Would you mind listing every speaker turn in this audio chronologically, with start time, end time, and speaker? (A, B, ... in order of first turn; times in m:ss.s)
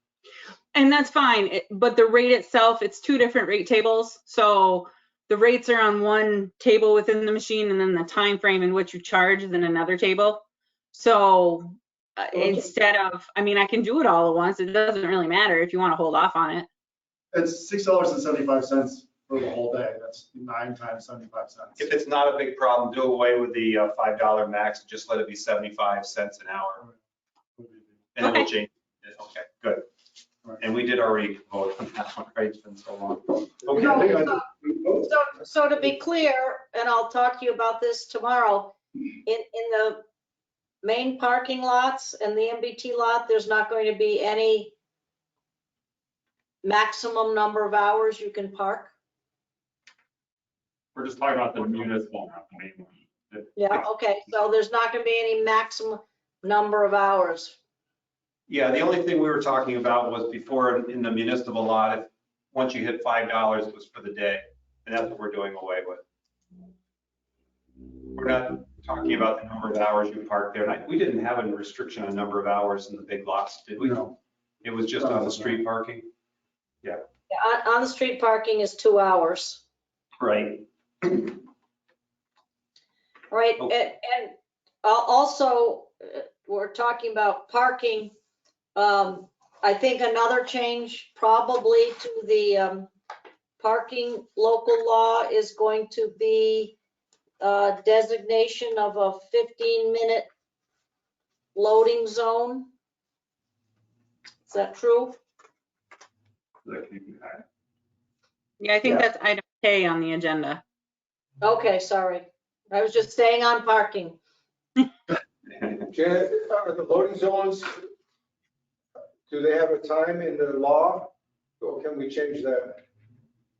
0:00.7-0:16.7 A
0:17.3-0:21.9 B
0:21.8-0:26.8 C
0:27.6-0:28.1 B
0:28.2-0:29.9 C
0:28.2-0:28.5 A
0:30.6-0:34.1 C
0:33.7-0:35.0 B
0:33.7-0:34.4 D
0:35.0-0:40.0 D
0:40.8-0:44.8 D
0:46.6-0:48.9 D
0:51.0-0:53.7 E
0:53.6-0:57.6 D
0:58.5-1:06.0 C
1:08.2-1:14.0 C
1:13.8-1:14.2 B
1:14.6-1:16.1 C
1:15.0-1:15.6 B
1:17.3-1:19.6 D
1:20.2-1:21.4 C
1:23.3-1:28.2 D
1:28.8-1:32.9 D
1:33.6-1:36.8 D
1:37.4-1:40.3 D
1:41.6-1:42.7 D
1:44.5-1:45.2 D
1:46.7-1:47.2 C
1:48.6-1:50.6 A
1:51.4-1:54.2 D
1:55.9-1:57.8 F
1:59.3-2:02.8 F